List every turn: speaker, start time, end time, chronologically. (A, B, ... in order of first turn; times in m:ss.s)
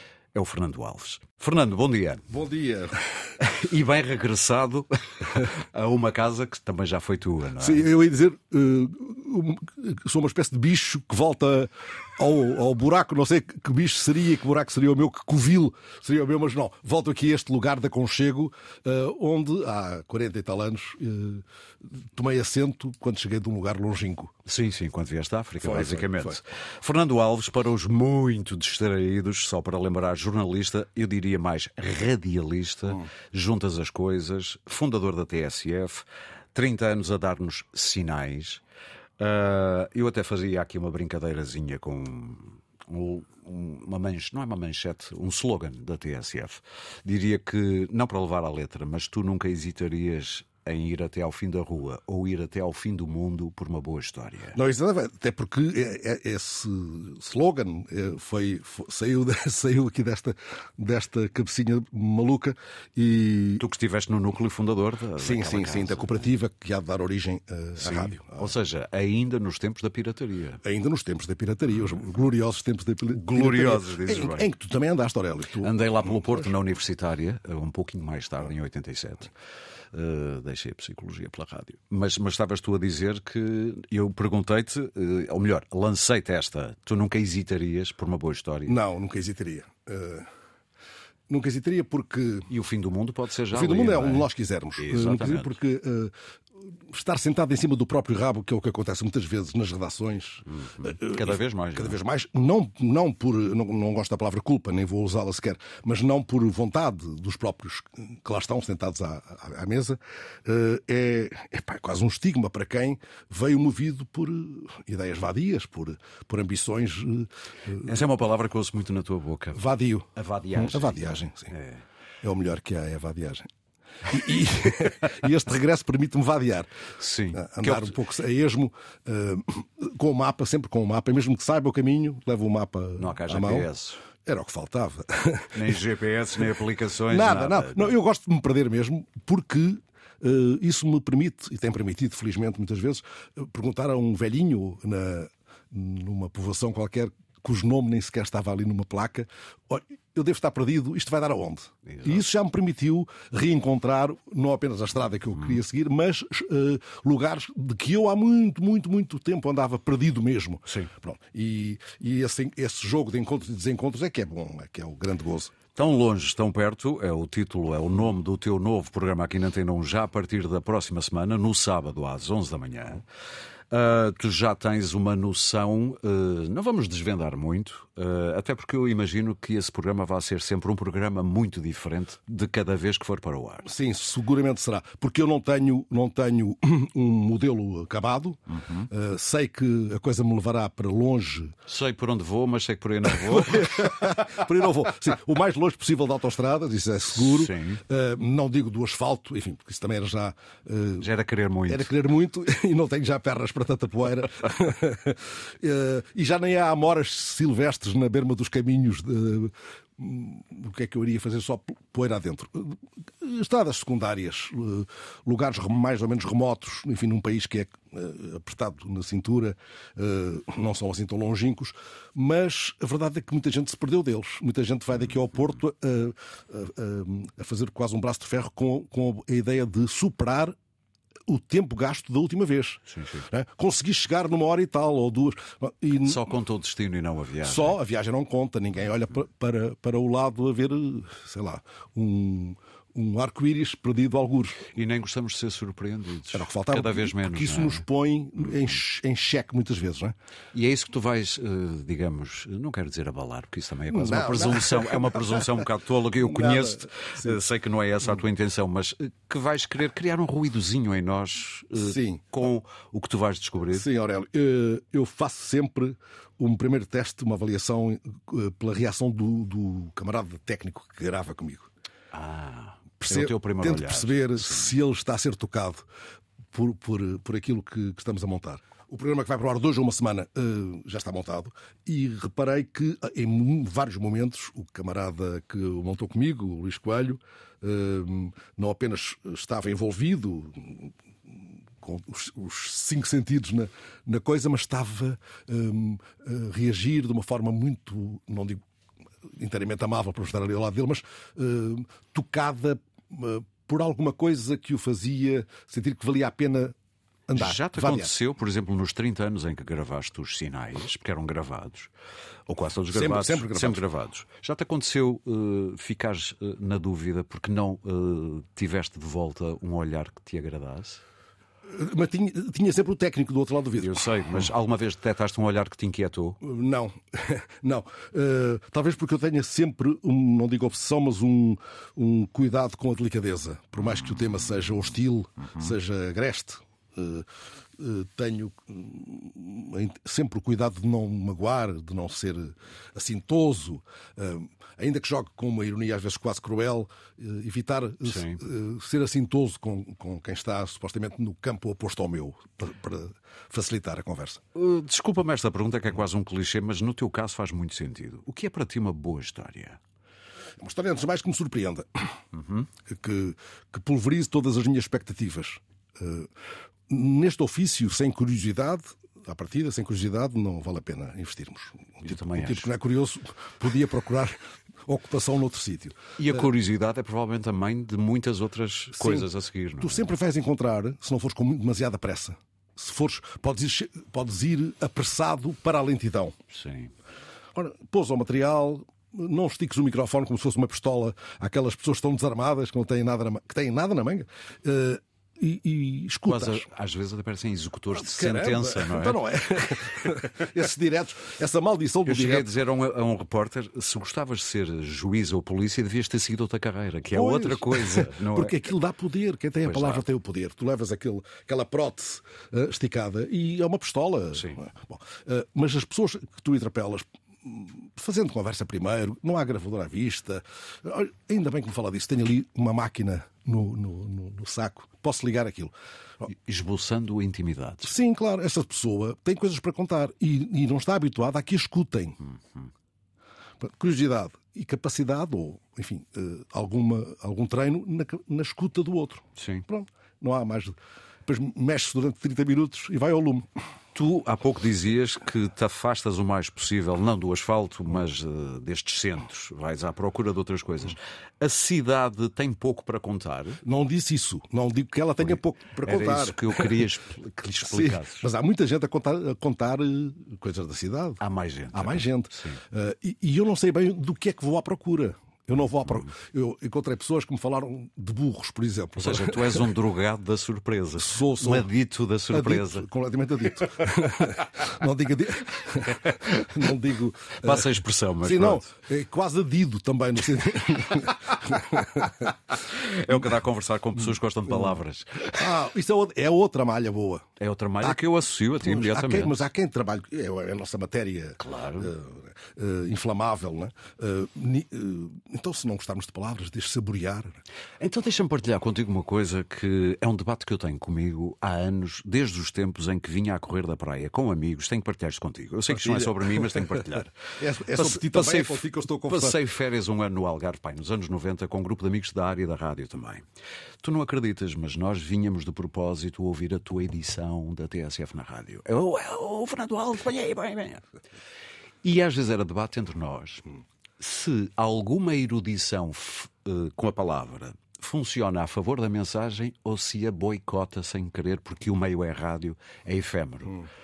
0:00.3-0:02.2 A
0:02.3-0:03.1 B
0:03.4-0:07.9 A
0:07.6-0:24.3 B
0:24.5-0:38.6 A
0:25.6-0:26.4 B
0:39.2-0:54.6 A
0:54.6-1:03.6 B
1:03.6-1:06.2 A
1:05.2-1:08.5 B
1:07.8-1:10.6 A
1:10.6-1:16.4 B
1:13.1-1:14.5 A
1:15.6-1:19.3 A
1:19.9-1:28.8 A
1:28.7-1:30.3 B
1:31.3-1:32.5 B
1:32.5-1:35.6 A
1:33.5-1:36.1 B
1:36.9-1:57.9 B
1:40.6-1:42.0 A
1:57.8-1:59.6 A
1:59.6-2:01.5 B
2:00.2-2:01.8 A
2:02.2-2:03.5 B
2:04.1-2:06.7 B
2:07.0-2:08.0 A
2:07.3-2:13.7 B
2:13.0-2:14.0 A
2:14.2-2:15.8 B
2:15.5-2:18.0 A
2:17.1-2:45.6 B
2:31.9-2:32.2 A
2:45.8-2:53.0 A
2:53.7-3:03.7 A
3:03.6-3:11.5 B
3:08.5-3:08.9 A
3:11.7-3:13.9 A
3:13.2-3:21.1 B
3:17.2-3:17.8 A
3:21.0-3:21.9 A
3:21.7-3:50.6 B
3:51.3-3:56.2 B
3:52.9-3:53.2 A
3:56.0-3:57.8 A
3:57.4-4:04.6 B
4:04.7-4:07.8 A
4:06.3-4:10.2 B
4:10.5-4:23.9 A
4:13.9-4:15.6 B
4:16.2-4:17.4 B
4:21.8-4:22.2 B
4:23.7-4:31.7 B
4:32.1-4:34.7 A
4:33.0-4:35.8 B
4:36.5-4:58.6 B
4:59.3-5:06.8 B
5:07.3-5:08.1 B
5:07.3-5:11.9 A
5:12.5-5:21.0 A
5:12.9-5:13.8 B
5:21.7-5:24.1 B
5:23.8-5:26.4 A
5:26.4-5:54.4 B
5:48.0-5:48.4 A
5:54.6-5:59.8 A
6:00.6-6:02.1 B
6:02.3-6:02.7 A
6:02.9-6:06.3 B
6:06.9-6:16.4 B
6:12.0-6:12.7 A
6:16.2-6:20.1 A
6:19.0-6:19.3 B
6:19.8-6:26.4 B
6:26.5-6:26.9 A
6:27.6-6:36.7 B
6:36.3-6:39.2 A
6:37.9-6:42.5 B
6:42.0-6:48.6 A
6:47.1-7:06.3 B
6:49.6-6:50.0 A
7:06.3-7:07.9 A
7:07.8-7:12.2 B
7:12.3-7:12.7 A
7:13.6-7:23.5 B
7:19.4-7:19.7 A
7:24.0-7:33.6 A
7:33.6-7:36.9 B
7:35.2-7:38.3 A
7:37.6-7:41.2 B
7:41.2-7:42.6 A
7:41.7-7:49.7 B
7:49.0-7:52.9 A
7:51.0-7:51.7 B
7:52.3-7:57.7 B
7:56.0-7:56.5 A
7:57.4-7:58.7 A
7:58.2-8:02.3 B
8:02.5-8:05.5 A
8:05.3-8:07.3 B
8:07.4-8:09.4 A
8:08.6-8:17.4 B
8:11.4-8:11.9 A
8:17.8-8:27.2 A
8:25.7-8:26.2 B
8:27.4-8:29.4 B
8:27.7-8:33.2 A
8:33.8-8:40.9 A
8:41.8-8:43.5 A
8:44.0-8:53.7 A